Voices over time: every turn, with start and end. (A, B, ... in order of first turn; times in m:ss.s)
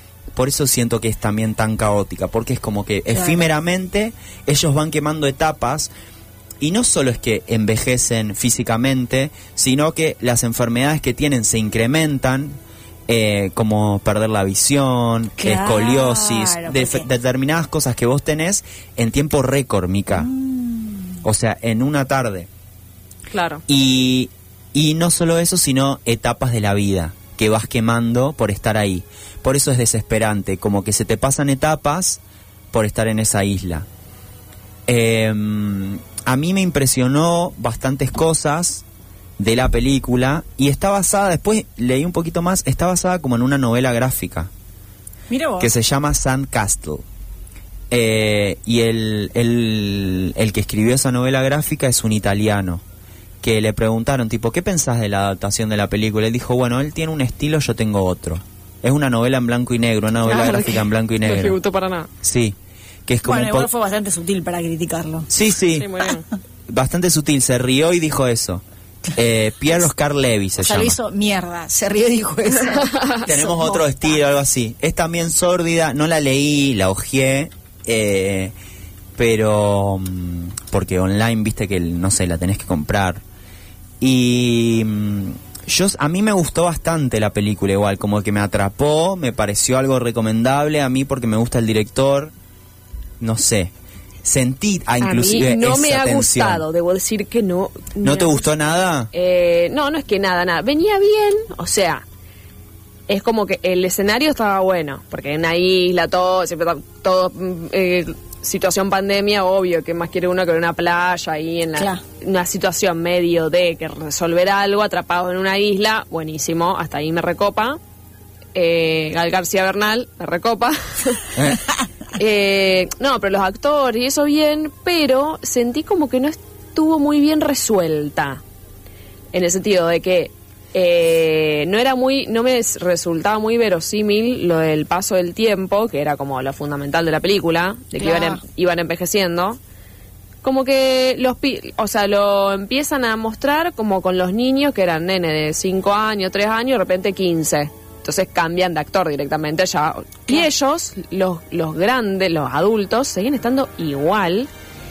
0:00.4-0:05.9 A
0:03.1-0:03.4 B
0:06.6-0:12.6 A
0:13.1-0:20.3 A
0:15.4-0:17.1 B
0:20.1-0:21.2 B
0:21.2-0:22.5 A
0:23.3-0:23.6 C
0:23.7-0:32.2 A
0:32.7-0:33.9 A
0:34.9-0:38.8 A
0:39.4-0:44.5 A
0:45.3-0:45.7 B
0:45.6-0:47.0 A
0:47.9-0:52.8 A
0:53.4-1:01.6 A
1:00.2-1:02.1 C
1:02.2-1:03.7 A
1:03.2-1:05.3 B
1:05.3-1:05.9 A
1:05.8-1:06.2 C
1:06.7-1:08.6 A
1:09.1-1:11.0 A
1:10.6-1:14.1 B
1:12.8-1:13.2 C
1:13.2-1:18.5 A
1:19.2-1:23.2 A
1:24.0-1:32.3 A
1:33.2-1:33.7 A
1:34.2-1:36.6 A
1:35.0-1:38.5 C
1:38.0-1:39.1 A
1:39.1-1:42.0 C
1:43.1-1:57.8 C
1:51.8-1:52.0 B
1:58.5-2:01.4 C
2:01.4-2:01.6 A
2:02.1-2:08.4 C
2:09.3-2:19.6 C
2:18.0-2:18.4 B
2:20.4-2:34.5 C